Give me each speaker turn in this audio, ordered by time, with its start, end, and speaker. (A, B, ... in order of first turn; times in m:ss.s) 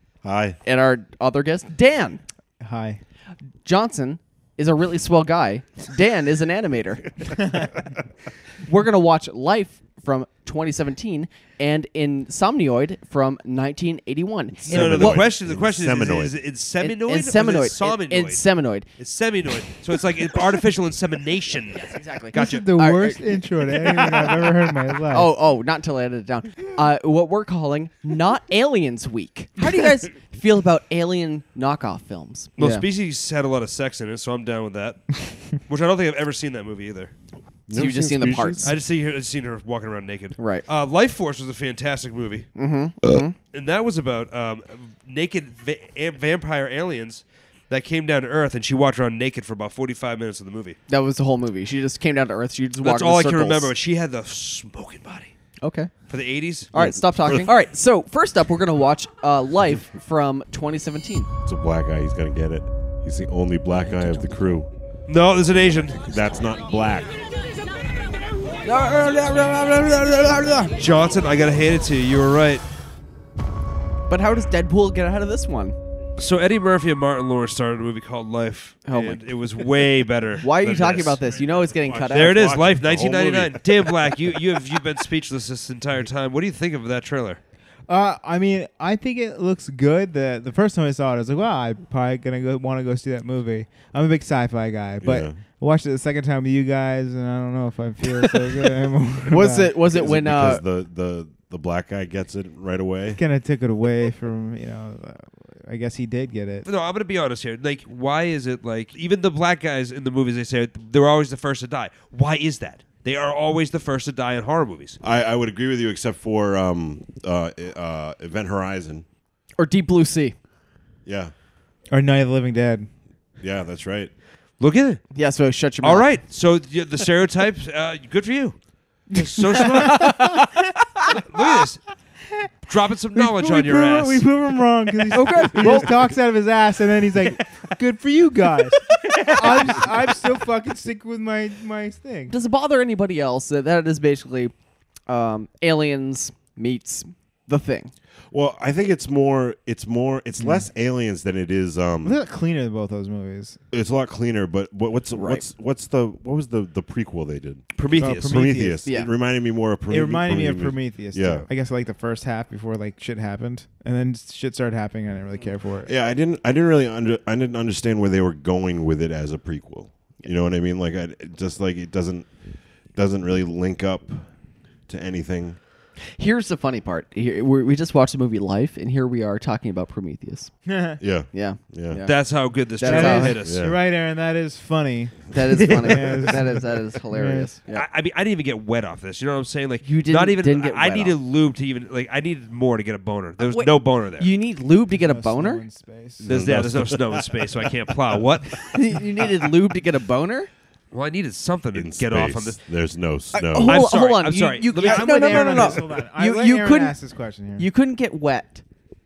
0:00.2-0:00.6 A
0:00.6-0:02.2 B
0:02.6-0:03.0 C
0:03.6-0:07.1 B
0:07.4-0:07.7 C
0:08.6-0:15.3 B
0:14.6-0:22.7 D
0:14.7-0:16.4 A
0:16.8-0:18.9 B
0:21.8-0:24.3 B
0:22.4-0:25.3 C
0:25.1-0:32.9 B
0:32.6-0:37.1 D
0:37.7-0:38.8 A
0:37.7-0:38.7 B
0:38.6-0:42.5 D
0:40.4-0:40.6 B
0:42.6-0:43.4 B
0:43.4-0:50.8 D
0:50.9-0:53.7 B
0:52.8-0:55.3 D
0:55.6-0:55.9 B
0:56.1-0:56.7 D
0:56.7-1:01.3 B
0:56.8-0:57.5 A
1:01.4-1:04.7 A
1:05.1-1:06.0 D
1:06.1-1:07.1 A
1:08.6-1:10.7 B
1:10.8-1:12.6 D
1:14.1-1:15.8 B
1:16.2-1:21.2 D
1:18.9-1:19.2 B
1:20.4-1:22.6 B
1:20.8-1:24.3 A
1:22.1-1:27.4 D
1:27.9-1:39.8 C
1:35.0-1:35.4 A
1:39.3-1:40.6 B
1:39.8-1:43.2 A
1:43.2-1:46.7 C
1:46.6-1:55.0 D
1:55.0-1:59.0 A
1:59.6-2:00.4 B
2:01.1-2:01.3 A
2:01.9-2:02.9 C
2:03.4-2:04.1 A
2:04.6-2:05.0 D
2:05.1-2:06.1 B
2:05.8-2:08.6 D
2:09.1-2:10.4 D
2:09.5-2:10.5 B
2:10.0-2:10.3 C
2:11.1-2:11.8 D
2:12.6-2:14.3 D
2:13.2-2:22.3 C
2:15.1-2:16.0 B
2:22.3-2:24.5 B
2:25.1-2:27.9 B
2:28.3-2:32.2 A
2:30.4-2:30.7 C
2:32.0-2:33.6 C
2:33.7-2:41.5 A
2:35.2-2:35.4 B
2:37.8-2:38.5 D
2:38.0-2:39.0 C
2:38.8-2:39.1 B
2:39.9-2:45.9 C
2:45.8-2:52.3 A
2:53.0-2:54.3 A
2:54.9-2:55.6 A
2:56.2-3:00.5 B
3:00.7-3:01.0 C
3:01.0-3:02.0 A
3:01.3-3:03.4 B
3:02.0-3:03.6 D
3:02.8-3:06.6 C
3:03.4-3:03.8 A
3:05.3-3:07.9 B
3:05.6-3:06.2 D
3:07.1-3:07.5 C
3:07.7-3:14.3 D
3:09.8-3:11.2 B
3:13.4-3:15.6 B
3:14.9-3:16.3 C
3:16.2-3:17.3 A
3:16.2-3:18.6 D
3:18.7-3:20.5 B
3:20.9-3:22.6 D
3:21.7-3:23.9 A
3:23.3-3:27.0 B
3:23.6-3:25.8 D
3:24.8-3:27.7 C
3:27.6-3:28.6 B